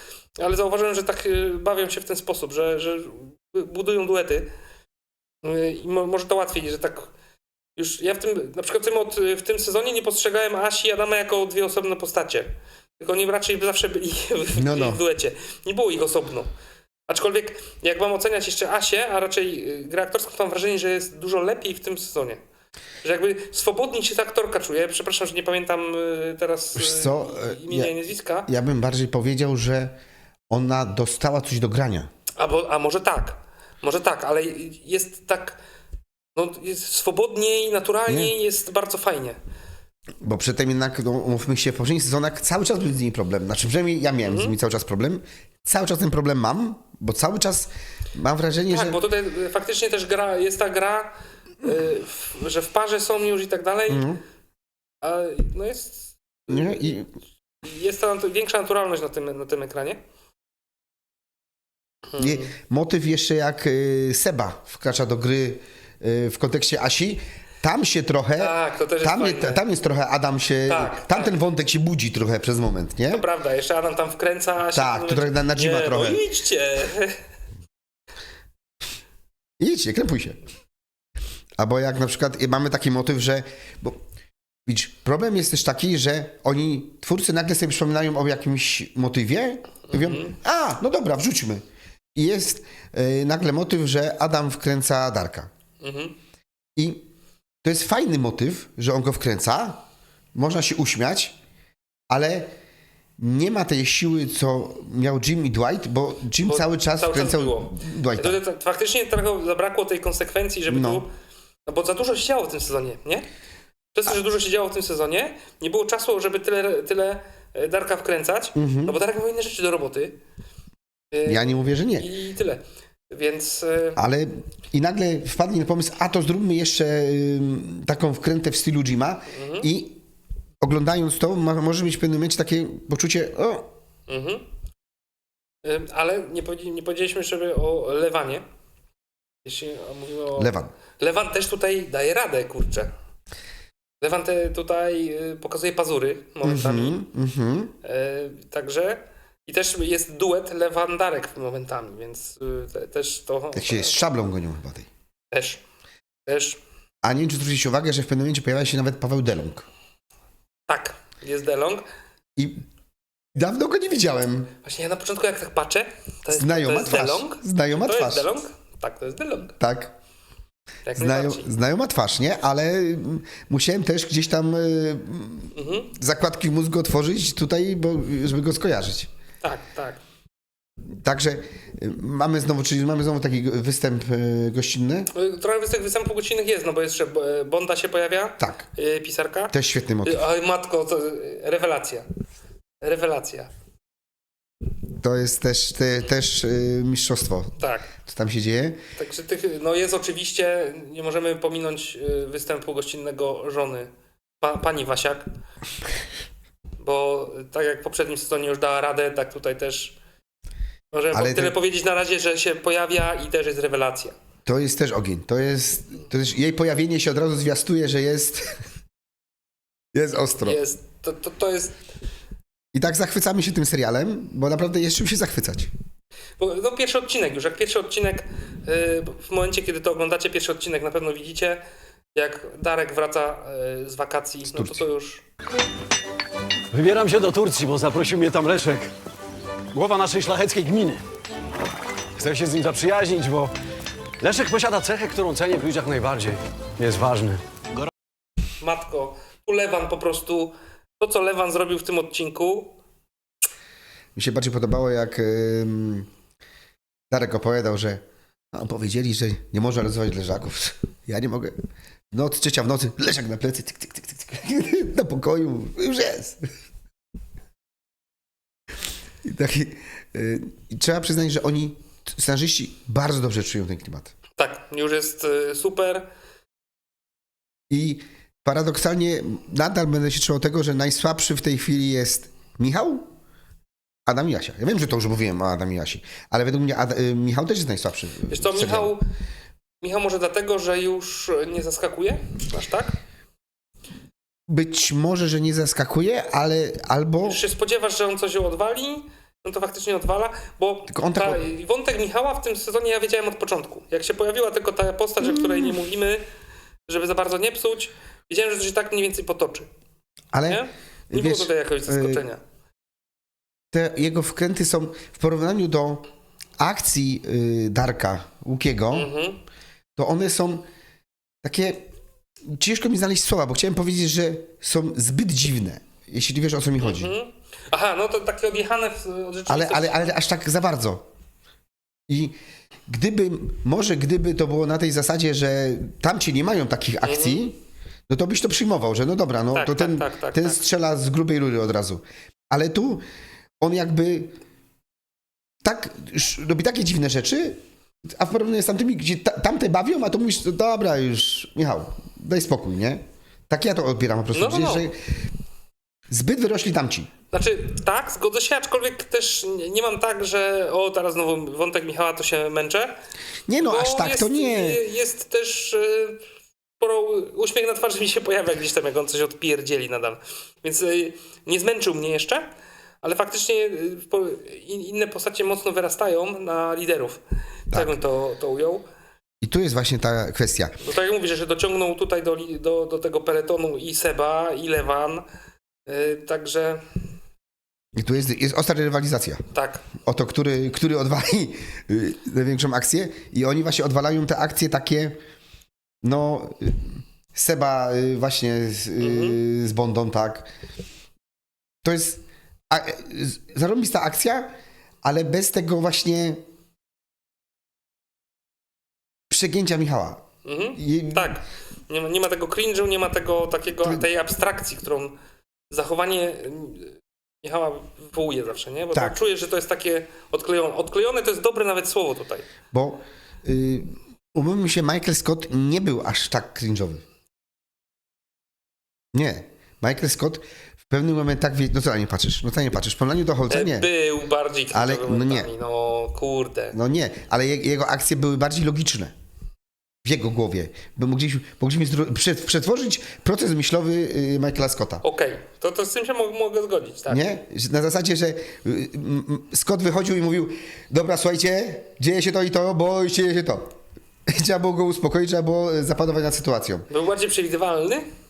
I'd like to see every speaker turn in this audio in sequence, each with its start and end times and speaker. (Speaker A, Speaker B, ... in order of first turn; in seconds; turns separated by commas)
Speaker A: 0.4-4.5, Speaker A: 5.4-7.1, Speaker A: 7.8-16.5, Speaker B: 14.5-15.0, Speaker A: 17.1-22.4, Speaker A: 23.0-28.5, Speaker B: 26.8-27.9, Speaker B: 28.4-29.9, Speaker B: 30.5-32.1, Speaker A: 32.4-35.6, Speaker A: 36.4-39.4, Speaker B: 38.0-38.3, Speaker B: 40.2-49.0, Speaker A: 44.2-44.5, Speaker A: 48.7-54.0, Speaker B: 53.9-54.2, Speaker A: 55.0-57.0, Speaker B: 56.5-57.1, Speaker A: 57.6-60.0, Speaker A: 62.1-62.5, Speaker B: 62.2-73.2, Speaker A: 68.4-69.6, Speaker A: 70.7-71.4, Speaker A: 73.1-77.2, Speaker B: 74.7-76.2, Speaker B: 79.6-80.4, Speaker B: 81.6-84.0, Speaker B: 84.7-91.6, Speaker A: 89.9-90.4, Speaker B: 92.1-95.5, Speaker A: 95.8-96.1, Speaker B: 96.8-97.0, Speaker B: 97.6-99.8, Speaker B: 100.3-101.4, Speaker B: 102.1-102.5, Speaker B: 103.2-108.4, Speaker A: 106.4-111.1, Speaker B: 110.7-111.0, Speaker A: 111.7-113.2, Speaker A: 113.9-120.2, Speaker B: 118.5-119.0, Speaker A: 121.1-124.0, Speaker B: 121.2-122.1, Speaker B: 124.0-130.0, Speaker A: 129.3-129.7, Speaker B: 130.6-133.7, Speaker A: 134.1-134.4, Speaker A: 135.6-138.4, Speaker A: 139.4-142.9, Speaker B: 140.4-140.7, Speaker A: 144.0-147.0, Speaker B: 146.4-147.7, Speaker A: 147.8-154.0, Speaker B: 153.5-154.9, Speaker A: 155.3-155.6, Speaker A: 156.2-156.6, Speaker B: 157.0-159.7, Speaker A: 160.7-161.8, Speaker B: 162.4-162.6, Speaker B: 163.3-164.5, Speaker A: 164.6-169.6, Speaker B: 166.3-168.3, Speaker B: 169.6-169.9, Speaker A: 170.9-171.5, Speaker B: 170.9-179.1, Speaker A: 175.5-175.9, Speaker A: 179.4-180.0, Speaker B: 180.9-185.1, Speaker A: 185.1-192.1, Speaker B: 188.4-188.7, Speaker B: 189.5-190.2, Speaker A: 192.8-193.5, Speaker B: 195.0-198.8, Speaker A: 197.6-197.9, Speaker A: 199.0-203.9, Speaker A: 204.4-205.3, Speaker A: 206.8-210.0, Speaker A: 210.9-214.2, Speaker B: 211.1-211.6, Speaker B: 214.4-218.6, Speaker B: 219.9-220.6, Speaker A: 220.4-221.8, Speaker B: 222.7-225.7, Speaker A: 226.4-231.6, Speaker A: 232.1-235.2, Speaker B: 234.5-234.8, Speaker C: 236.7-238.9, Speaker C: 239.7-241.0, Speaker C: 242.2-243.5, Speaker C: 244.2-247.4, Speaker A: 248.6-252.8, Speaker B: 254.1-256.1, Speaker B: 257.1-261.6, Speaker B: 262.1-266.5, Speaker B: 269.2-274.1, Speaker A: 274.4-276.1, Speaker B: 277.7-283.1, Speaker B: 284.1-288.9, Speaker A: 288.3-289.0, Speaker A: 289.8-293.0, Speaker B: 294.5-297.4, Speaker A: 297.2-306.2, Speaker B: 300.9-301.4, Speaker B: 305.2-305.7, Speaker A: 306.9-309.7, Speaker B: 310.3-312.2, Speaker A: 310.5-312.4, Speaker B: 313.7-316.1, Speaker B: 316.6-319.1, Speaker A: 318.9-319.4, Speaker B: 319.9-320.6, Speaker B: 321.4-321.9, Speaker B: 322.4-327.1, Speaker A: 326.8-330.1, Speaker B: 329.5-331.1, Speaker B: 332.1-343.0, Speaker A: 337.0-337.4, Speaker A: 339.5-340.6, Speaker B: 343.6-344.4, Speaker B: 345.6-355.2, Speaker A: 354.3-354.9, Speaker B: 356.1-357.1, Speaker A: 357.3-362.9, Speaker B: 363.5-364.8, Speaker A: 363.6-366.2, Speaker A: 366.8-372.5, Speaker A: 373.0-378.9, Speaker B: 377.7-378.0, Speaker B: 379.4-380.8, Speaker A: 380.8-385.2, Speaker A: 385.9-386.8, Speaker B: 387.9-389.4, Speaker A: 389.5-389.9, Speaker B: 390.0-395.2, Speaker B: 396.0-400.5, Speaker A: 399.0-399.4, Speaker B: 401.8-406.4, Speaker B: 409.3-410.2, Speaker A: 410.4-415.1, Speaker B: 410.8-411.4, Speaker A: 415.7-422.4, Speaker B: 422.7-427.0, Speaker B: 429.1-433.9, Speaker A: 433.5-436.8, Speaker B: 434.7-435.5, Speaker B: 436.7-439.1, Speaker B: 440.0-445.0, Speaker A: 445.0-447.3, Speaker B: 447.1-453.7, Speaker B: 454.3-456.9, Speaker A: 456.9-458.1